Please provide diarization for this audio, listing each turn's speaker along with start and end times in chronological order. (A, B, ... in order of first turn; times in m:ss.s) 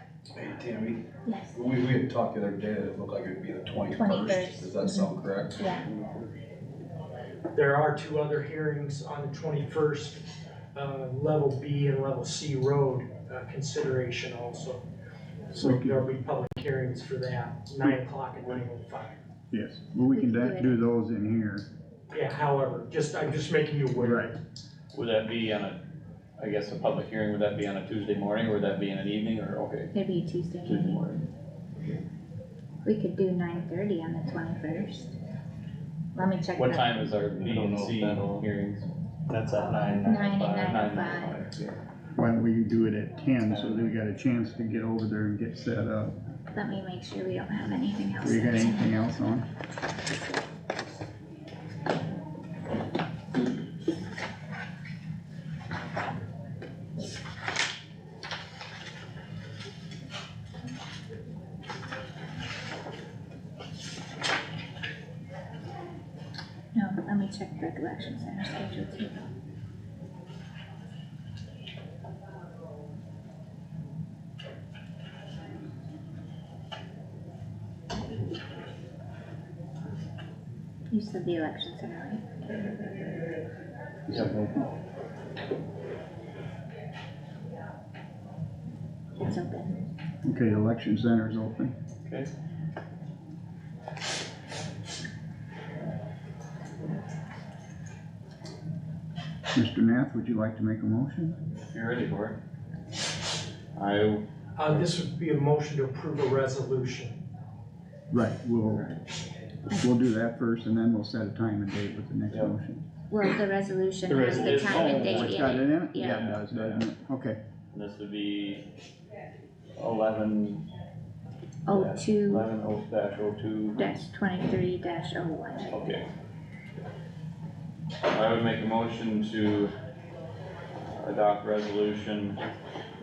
0:00.4-0:01.0 A
0:01.2-0:01.6 B
0:01.5-0:05.6 A
0:03.9-0:05.9 B
0:07.5-0:10.2 C
0:10.7-0:14.8 C
0:15.5-0:19.2 C
0:15.5-0:16.0 D
0:19.5-0:21.6 D
0:20.1-0:20.8 B
0:22.1-0:24.4 C
0:24.0-0:24.3 D
0:24.9-0:25.8 E
0:26.4-0:29.9 E
0:29.9-0:31.0 B
0:30.6-0:31.2 E
0:32.8-0:35.1 B
0:36.1-0:37.1 B
0:36.6-0:38.9 E
0:37.3-0:38.4 F
0:39.3-0:40.7 F
0:40.0-0:41.4 B
0:40.0-0:41.8 E
0:42.2-0:46.2 D
0:43.5-0:43.9 E
0:46.5-0:48.9 B
0:48.2-0:49.4 D
1:06.7-1:09.3 B
1:20.9-1:22.8 B
1:24.1-1:24.5 D
1:24.1-1:24.4 E
1:29.2-1:29.8 B
1:30.2-1:31.7 D
1:32.0-1:32.3 E
1:39.5-1:41.4 D
1:41.6-1:42.4 E
1:43.7-1:44.8 E
1:44.6-1:47.2 C
1:48.1-1:49.0 D
1:49.8-1:52.8 D
1:52.3-1:52.5 E
1:53.1-1:56.4 B
1:54.1-1:56.8 E
1:54.5-1:57.4 D
1:57.7-1:58.6 E
1:59.8-2:00.6 E
2:01.6-2:02.5 B
2:01.7-2:03.8 E
2:03.8-2:05.9 B
2:05.7-2:06.0 E
2:08.0-2:09.7 E
2:10.9-2:12.4 E